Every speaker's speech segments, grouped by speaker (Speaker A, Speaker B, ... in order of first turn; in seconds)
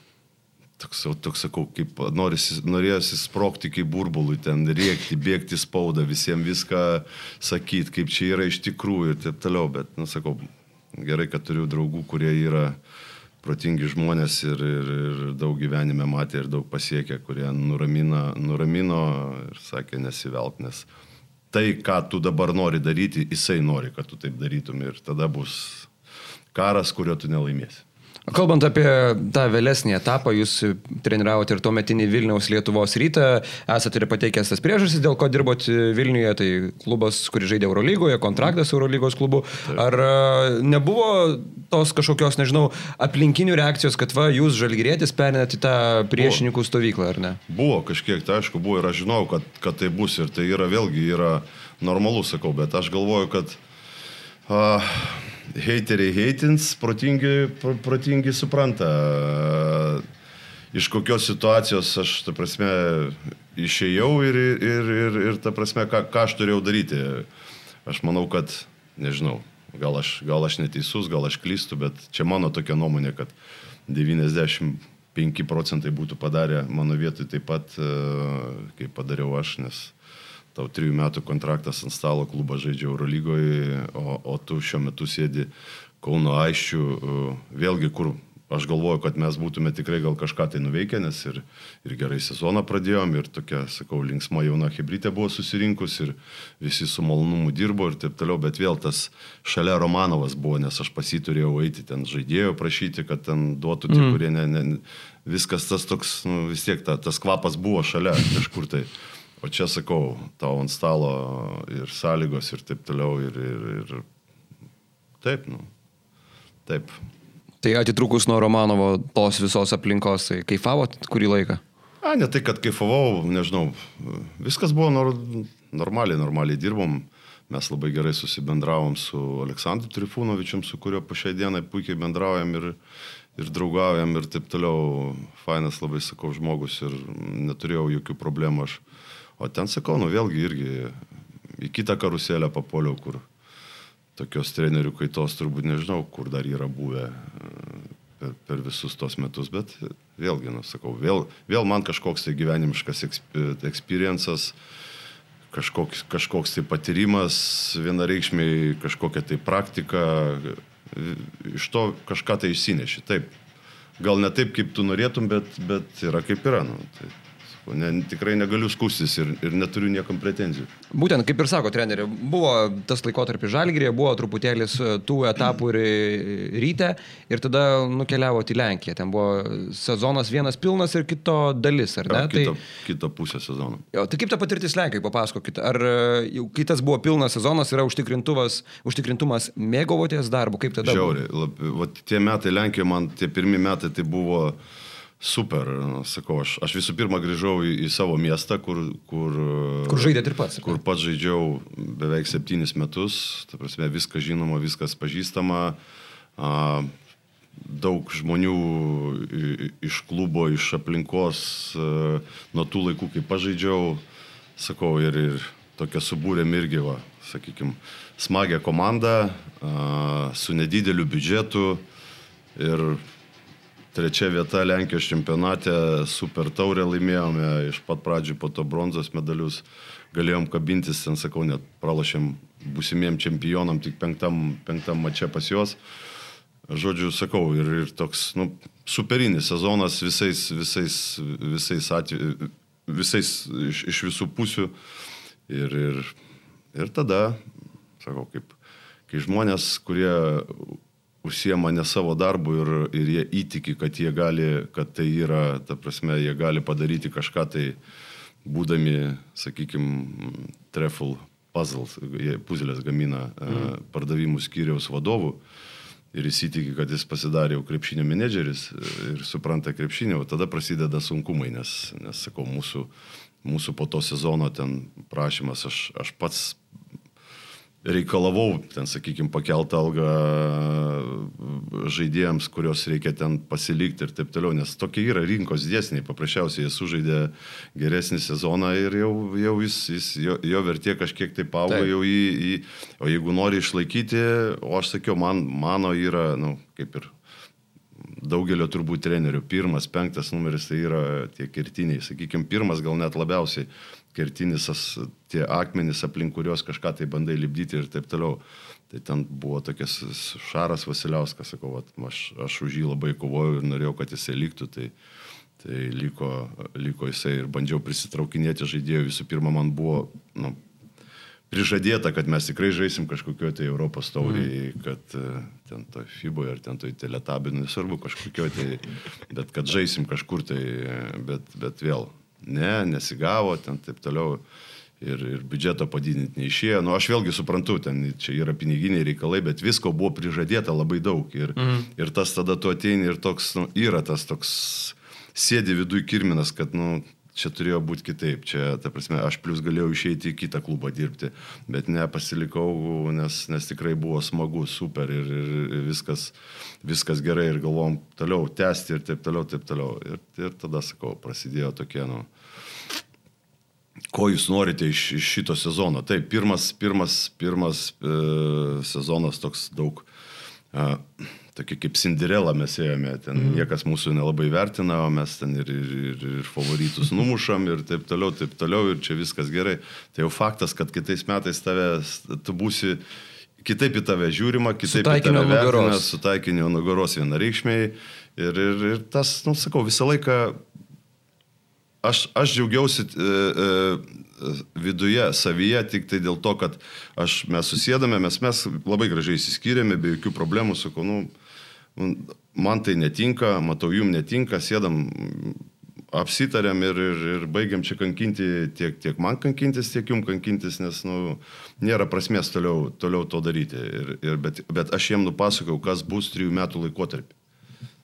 Speaker A: 0.8-12.8, 13.4-20.9, 21.5-25.9, 26.5-27.8, 46.1-46.4, 47.5-53.6, 54.5-60.0, 60.7-67.3, 67.8-73.3, 73.9-79.9, 80.5-85.5, 86.0-108.9, 109.4-114.0, 115.2-115.7, 116.7-117.0, 122.0-132.8, 133.3-138.8, 139.4-141.0, 141.5-143.2, 144.2-154.6, 155.5-163.3, 164.0-170.7, 182.1-183.8, 190.8-194.6, 195.2-205.8, 206.4-206.9, 207.6-214.0, 214.6-221.8, 222.5-223.0, 223.9-235.8, 236.7-244.7, 245.5-246.2, 246.7-247.4, 248.0-248.5, 249.1-257.8, 258.4-265.4, 266.1-272.9, 273.4-276.6, 277.8-297.1, 298.0-314.9, 315.6-320.6, 321.5-334.4, 335.0-362.3, 364.1-370.1, 370.7-383.0, 383.6-390.6, 392.0-401.3, 401.9-417.3
Speaker B: 28.3-47.4, 103.9-104.2, 117.6-121.6, 170.9-182.6, 183.9-191.1, 199.9-200.8, 341.6-341.9, 384.8-386.1